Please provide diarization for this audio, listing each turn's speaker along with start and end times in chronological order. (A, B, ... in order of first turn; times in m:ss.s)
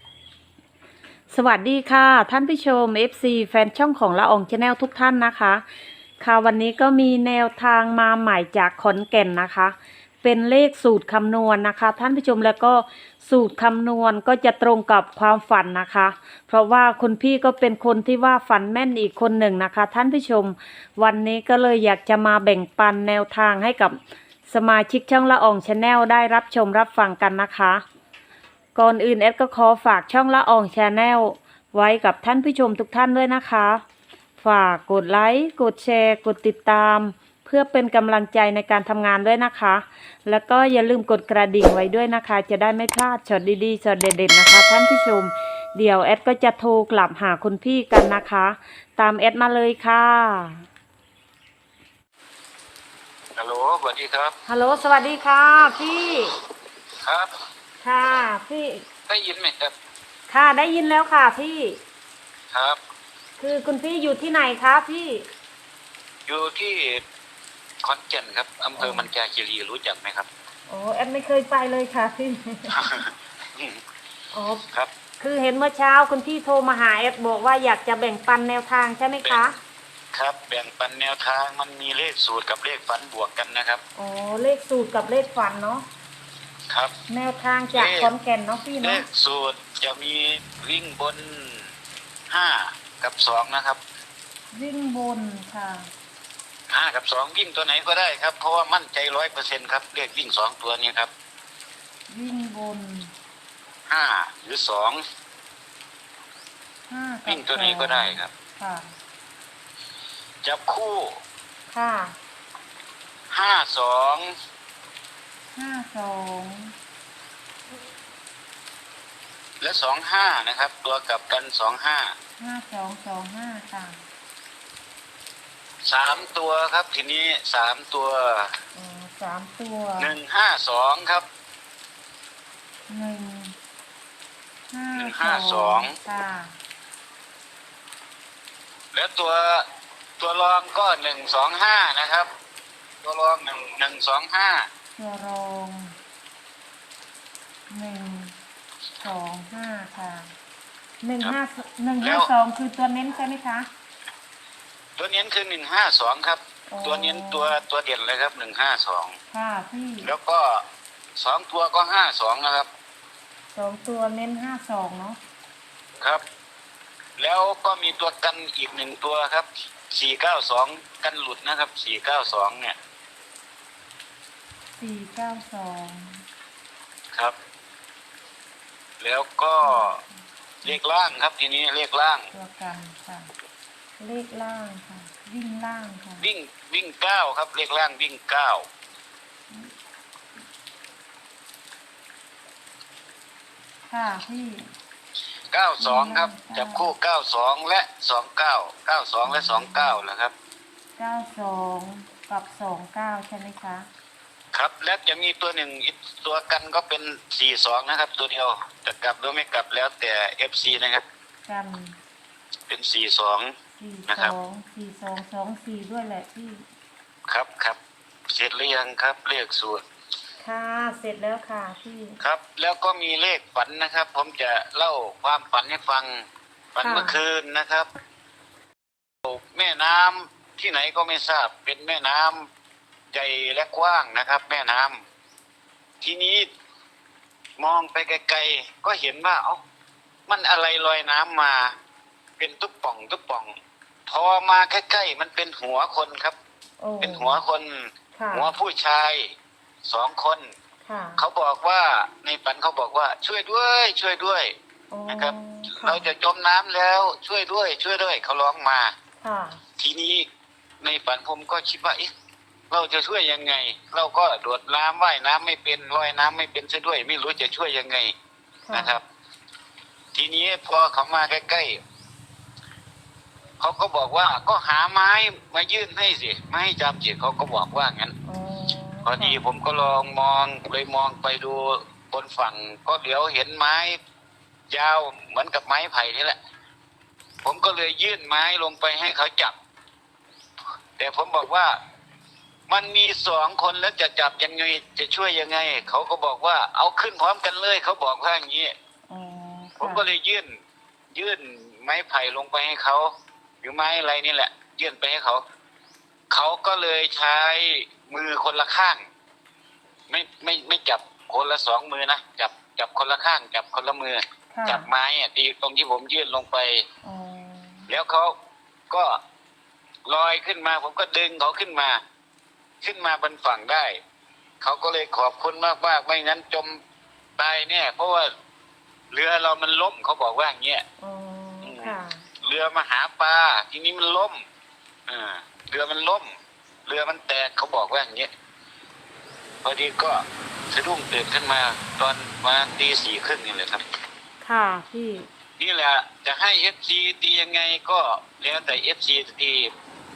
0:01.3-0:05.6 A
0:06.2-0:27.8 A
0:28.7-0:33.8 A
0:34.4-0:50.6 A
0:53.4-0:54.3 B
0:54.4-0:56.4 A
0:57.0-0:57.3 B
0:57.8-0:58.8 A
0:59.1-0:59.7 B
1:00.3-1:01.8 A
1:02.5-1:02.8 B
1:03.4-1:05.3 A
1:06.3-1:07.0 B
1:07.8-1:10.3 B
1:08.8-1:09.1 A
1:10.7-1:13.0 A
1:12.7-1:13.8 B
1:14.3-1:14.7 A
1:15.2-1:19.6 A
1:19.2-1:19.5 B
1:20.1-1:23.8 B
1:24.0-1:25.9 A
1:26.7-1:26.9 B
1:27.1-1:29.0 A
1:27.7-1:28.1 B
1:28.8-1:31.7 B
1:32.3-1:33.8 B
1:34.5-1:35.9 A
1:36.7-1:41.1 B
1:42.1-1:43.1 A
1:43.9-1:45.0 B
1:46.9-1:49.0 A
1:47.3-1:48.3 B
1:50.4-1:51.2 B
1:51.7-1:52.2 A
1:53.3-1:54.3 B
1:55.5-1:56.7 A
1:59.6-2:02.1 B
2:02.4-2:04.0 A
2:05.8-2:08.5 B
2:08.7-2:10.2 A
2:10.0-2:11.3 B
2:12.9-2:13.5 A
2:14.7-2:16.6 A
2:14.9-2:16.0 B
2:18.9-2:19.7 B
2:20.2-2:22.3 B
2:23.0-2:24.7 B
2:24.9-2:25.9 A
2:27.7-2:28.3 A
2:29.0-2:30.3 A
2:31.0-2:33.7 A
2:32.0-2:32.3 B
2:35.0-2:39.2 B
2:36.7-2:37.6 A
2:39.3-2:40.1 A
2:40.0-2:40.6 B
2:41.2-2:42.7 B
2:43.5-2:45.2 A
2:47.2-2:52.8 B
2:54.8-2:56.2 A
2:59.0-3:00.0 B
2:59.6-3:00.8 A
3:00.6-3:02.3 B
3:02.3-3:03.3 A
3:04.0-3:06.3 A
3:06.2-3:08.6 B
3:13.9-3:14.7 A
3:15.5-3:20.3 B
3:15.8-3:16.9 A
3:19.2-3:20.0 A
3:21.0-3:23.9 A
3:24.5-3:31.0 B
3:31.4-3:32.0 A
3:32.7-3:33.5 B
3:33.7-3:36.6 A
3:34.1-3:34.4 B
3:37.3-3:37.8 B
3:38.3-3:39.8 B
3:40.4-3:42.2 A
3:42.2-3:47.9 B
3:46.8-3:47.2 A
3:49.2-3:52.5 B
3:53.1-3:55.0 B
3:56.0-3:56.5 B
3:57.6-3:59.6 B
4:00.3-4:01.7 B
4:02.4-4:03.6 B
4:04.1-4:06.4 B
4:06.8-4:07.4 A
4:07.0-4:09.3 B
4:08.1-4:08.5 A
4:09.8-4:10.4 B
4:10.8-4:11.2 A
4:11.2-4:14.5 B
4:14.9-4:16.0 A
4:15.1-4:18.9 B
4:19.2-4:19.6 A
4:19.8-4:20.3 B
4:20.8-4:22.1 B
4:22.7-4:28.1 B
4:28.6-4:28.9 A
4:28.7-4:29.0 B
4:30.1-4:31.8 B
4:33.6-4:38.1 B
4:38.2-4:39.4 A
4:39.0-4:44.0 B
4:44.7-4:46.4 B
4:47.4-4:49.5 B
4:51.0-4:51.8 B
4:52.7-4:58.7 B
4:59.1-5:00.1 A
4:59.8-5:00.5 B
5:01.1-5:03.1 B
5:03.6-5:05.4 B
5:06.3-5:09.0 B
5:10.1-5:16.8 B
5:14.5-5:14.9 A
5:17.0-5:17.9 A
5:17.9-5:18.3 B
5:18.9-5:19.2 B
5:20.0-5:22.0 B
5:22.8-5:24.0 B
5:24.6-5:26.8 B
5:27.4-5:28.3 B
5:29.1-5:30.8 B
5:31.0-5:32.3 A
5:31.6-5:34.4 B
5:35.1-5:36.3 B
5:36.8-5:38.3 B
5:39.6-5:43.8 B
5:44.4-5:45.3 A
5:45.6-5:49.7 B